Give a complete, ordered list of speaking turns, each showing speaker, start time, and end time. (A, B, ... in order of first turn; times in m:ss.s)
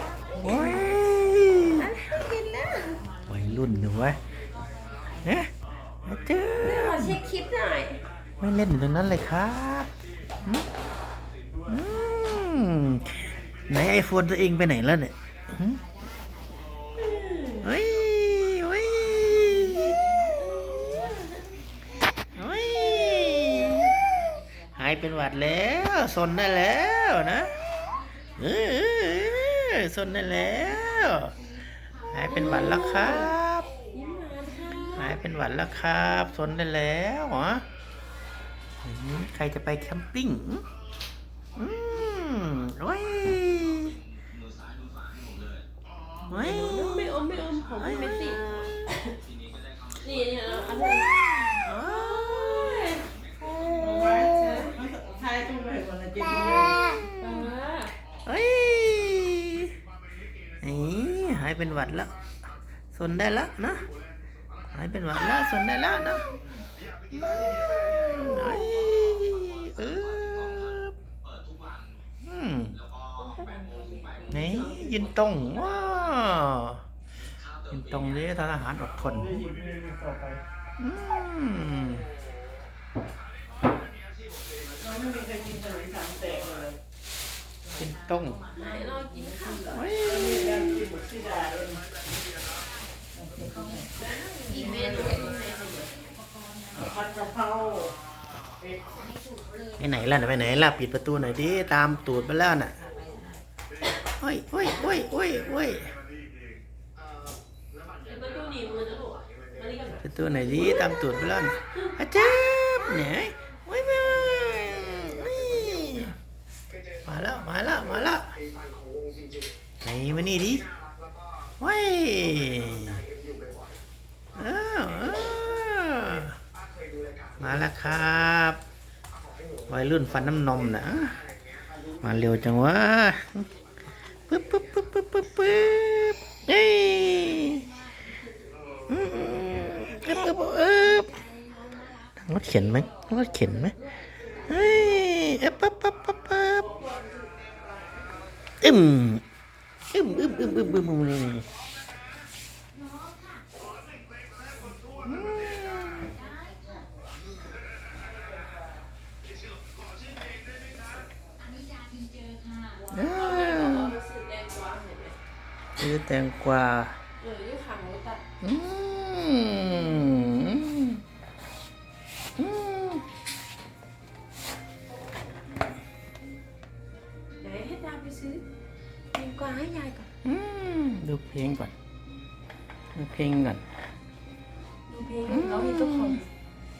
0:00.3-0:01.8 A
0:00.4-0:00.9 B
0:01.7-0:03.0 B
0:03.3-0:04.2 A
0:05.2-0:05.5 A
0:06.0-0:07.2 A
0:06.6-0:08.0 B
0:08.4-0:09.9 A
0:11.7-0:15.8 A
0:16.9-0:17.7 B
0:17.6-0:21.2 A
0:22.3-0:23.9 A
0:24.7-0:27.5 A
0:28.4-0:31.4 A
0:32.1-0:33.7 A
0:32.3-0:33.3 B
0:33.9-0:35.2 B
0:35.0-0:37.6 A
0:38.8-0:40.6 A
0:41.6-0:44.0 A
0:46.3-0:49.0 B
0:46.3-0:47.2 A
0:47.8-0:48.9 A
0:50.0-0:51.1 B
0:50.5-0:52.8 A
0:51.6-0:53.1 B
0:53.4-0:54.8 A
0:53.8-0:56.8 C
0:54.3-0:54.7 B
0:56.2-0:57.9 B
0:56.5-0:57.5 A
0:58.2-0:59.7 A
1:00.6-1:02.1 A
1:02.9-1:03.9 A
1:04.7-1:06.2 A
1:07.1-1:11.0 A
1:12.2-1:12.8 A
1:13.2-1:15.1 B
1:14.3-1:16.8 A
1:17.7-1:19.4 A
1:19.0-1:20.4 C
1:20.8-1:22.1 A
1:24.8-1:26.8 C
1:27.7-1:28.4 A
1:28.5-1:29.8 B
1:29.7-1:30.8 A
1:30.0-1:31.8 C
1:33.2-1:33.9 C
1:33.8-1:35.8 B
1:34.5-1:35.3 C
1:36.8-1:37.9 C
1:39.8-1:42.8 A
1:44.2-1:45.9 A
1:48.0-1:50.8 B
1:50.0-1:56.1 A
1:57.0-1:58.3 A
1:59.8-2:00.7 A
2:01.6-2:03.0 A
2:04.4-2:06.4 A
2:07.4-2:08.6 A
2:09.7-2:11.2 A
2:12.0-2:13.5 A
2:14.3-2:17.7 A
2:18.9-2:21.2 A
2:22.2-2:23.8 A
2:24.4-2:26.6 A
2:26.5-2:28.2 B
2:28.6-2:29.2 A
2:29.9-2:31.5 A
2:35.0-2:36.2 A
2:42.9-2:43.9 A
2:43.0-2:45.2 B
2:45.8-2:47.0 A
2:47.2-2:48.2 B
2:48.4-2:51.0 A
2:52.4-2:53.0 A
2:57.4-2:58.4 B
2:59.1-3:00.1 B
3:00.2-3:01.7 A
3:02.9-3:03.6 A
3:04.9-3:06.3 B
3:05.2-3:06.2 A